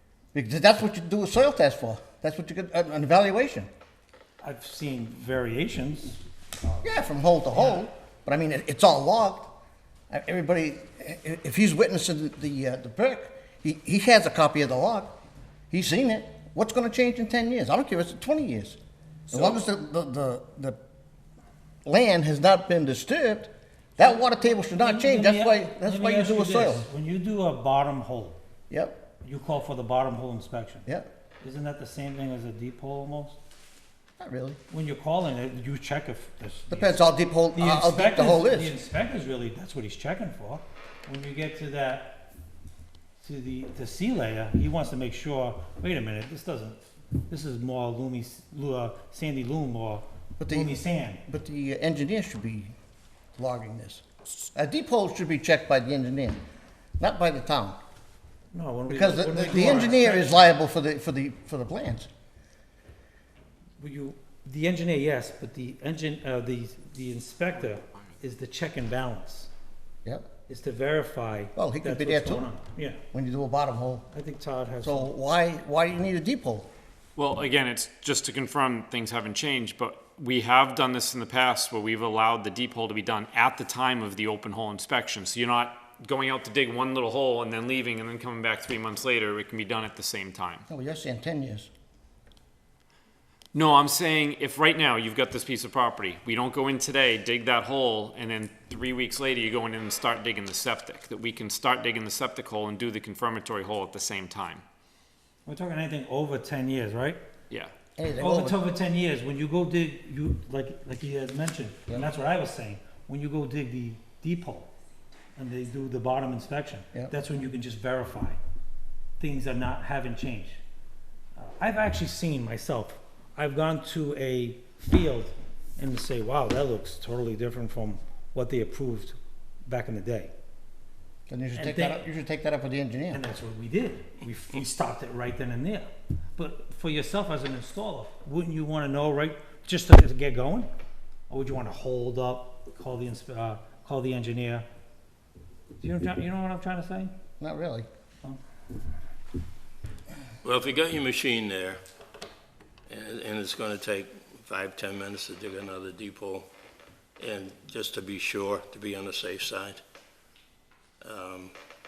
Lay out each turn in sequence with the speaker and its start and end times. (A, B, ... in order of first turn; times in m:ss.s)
0:00.3-0:03.7 A
0:04.4-0:06.9 B
0:06.8-0:09.6 A
0:07.5-0:07.8 B
0:10.1-0:15.2 A
0:15.7-0:18.8 A
0:19.3-0:20.8 A
0:21.8-0:26.8 A
0:24.0-0:28.4 B
0:28.7-0:29.0 A
0:29.2-0:30.8 B
0:31.4-0:33.4 B
0:34.2-0:34.6 A
0:34.7-0:37.0 B
0:36.7-0:38.8 A
0:37.5-0:42.2 B
0:43.2-0:51.2 B
0:50.4-0:52.7 A
0:53.4-0:54.0 A
0:54.5-0:56.4 A
0:57.0-0:57.8 A
0:58.5-1:00.4 B
0:58.9-1:02.1 A
1:03.8-1:09.5 B
1:10.5-1:13.0 B
1:11.6-1:12.5 A
1:13.1-1:14.1 A
1:14.1-1:15.1 B
1:14.8-1:16.7 A
1:17.2-1:30.6 C
1:30.7-1:31.7 A
1:33.5-1:44.6 C
1:45.4-1:47.2 B
1:48.0-1:48.6 A
1:48.2-1:54.7 B
1:55.4-1:58.4 B
1:59.2-2:00.6 B
2:01.4-2:10.3 B
2:11.3-2:13.2 A
2:11.6-2:12.0 B
2:13.1-2:20.7 B
2:21.3-2:24.6 B
2:25.8-2:27.1 B
2:27.4-2:27.9 A
2:30.4-2:31.8 D
2:32.9-2:36.5 D
2:37.2-2:39.8 D
2:41.0-2:41.5 D